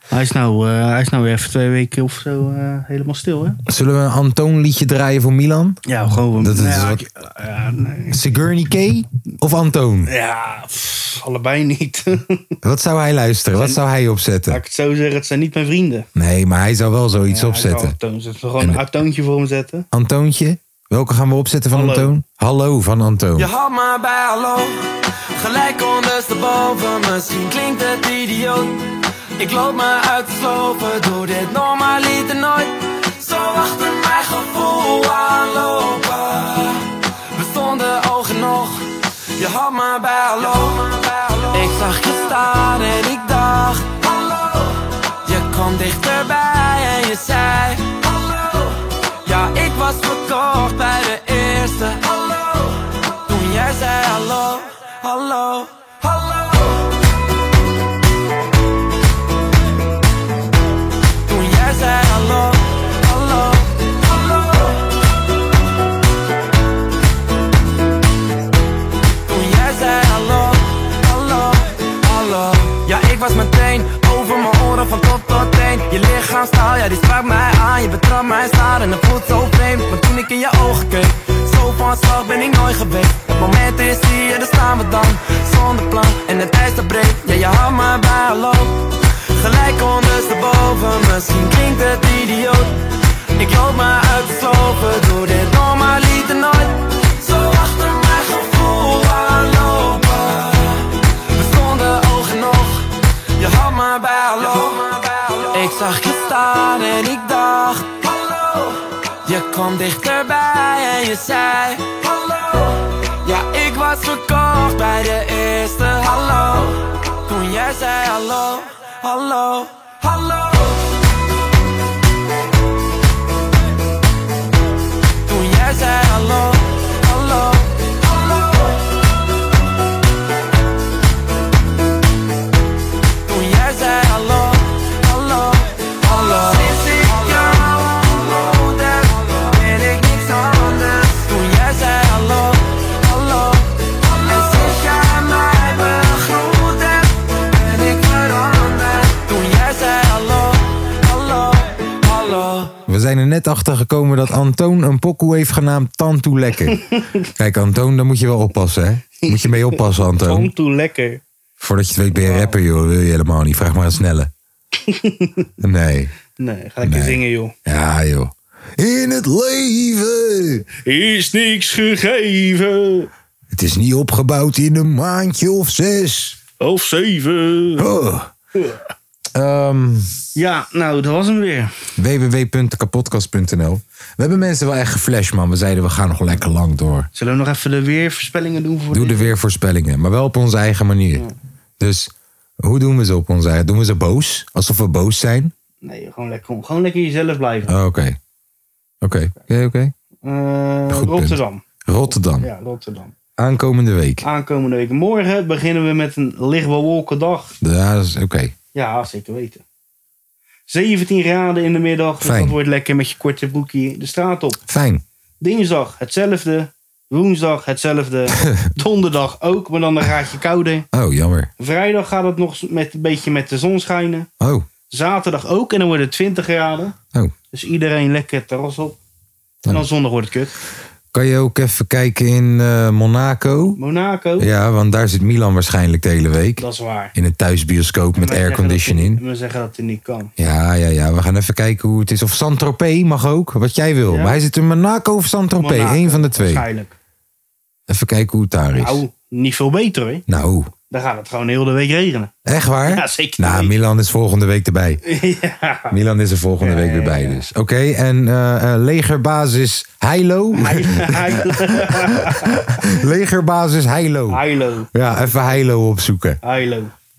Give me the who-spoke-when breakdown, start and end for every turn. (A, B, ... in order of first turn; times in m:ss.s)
0:00.1-0:03.6 A
0:03.7-0:05.8 B
0:05.8-0:08.2 A
0:06.4-0:07.0 B
0:08.1-0:10.1 B
0:10.0-0:12.5 A
0:12.6-0:14.6 B
0:13.5-0:13.8 A
0:14.5-0:16.1 A
0:16.1-0:18.0 B
0:17.3-0:19.9 A
0:19.9-0:23.5 B
0:21.7-0:22.1 A
0:23.4-0:28.8 C
0:29.4-0:56.8 C
1:01.2-1:04.8 C
1:09.3-1:28.8 C
1:29.4-1:32.8 C
1:33.4-1:42.8 C
1:43.4-2:00.8 C
2:05.2-2:08.7 C
2:13.2-2:32.7 C
2:32.8-2:36.8 B
2:36.8-2:37.0 A
2:37.4-2:40.5 B
2:39.2-2:41.2 A
2:41.6-2:44.3 B
2:42.1-2:42.6 A
2:44.8-2:45.5 A
2:45.6-2:46.1 B
2:46.4-2:47.5 A
2:46.8-2:50.6 B
2:50.8-2:53.1 A
2:53.5-2:56.4 B
2:56.6-2:57.9 A
2:57.8-2:58.3 B
2:58.5-2:58.9 A
2:59.3-3:00.1 B
3:00.3-3:01.7 A
3:02.0-3:07.1 B
3:07.1-3:09.3 A
3:08.9-3:11.3 B
3:11.8-3:15.5 B
3:15.8-3:17.7 A
3:17.6-3:18.2 B
3:19.0-3:19.9 B
3:20.2-3:21.6 A
3:20.9-3:22.5 B
3:22.3-3:23.1 A
3:23.4-3:24.2 B
3:24.2-3:27.6 A
3:27.6-3:28.5 B
3:28.7-3:29.6 A
3:30.7-3:34.6 A
3:32.2-3:32.6 B
3:34.7-3:35.0 B
3:35.4-3:40.8 A
3:38.4-3:38.7 B
3:40.9-3:41.5 B
3:41.6-3:44.3 A
3:44.4-3:44.7 B
3:44.9-3:46.9 A
3:47.5-3:49.0 A
3:49.7-3:50.5 A
3:51.1-3:53.8 B
3:53.8-3:54.5 A
3:54.4-3:59.2 B
3:56.6-3:57.1 A
3:58.2-4:00.3 A
4:00.4-4:06.6 B
4:04.1-4:04.4 A
4:05.6-4:06.9 A
4:07.9-4:09.0 B
4:08.8-4:10.2 A
4:10.3-4:10.7 B
4:10.9-4:12.3 A
4:12.4-4:15.0 B
4:12.9-4:13.7 A
4:15.0-4:16.0 A
4:15.9-4:26.4 B
4:16.6-4:17.4 A
4:20.5-4:22.5 A
4:24.3-4:25.4 A
4:26.4-4:26.9 A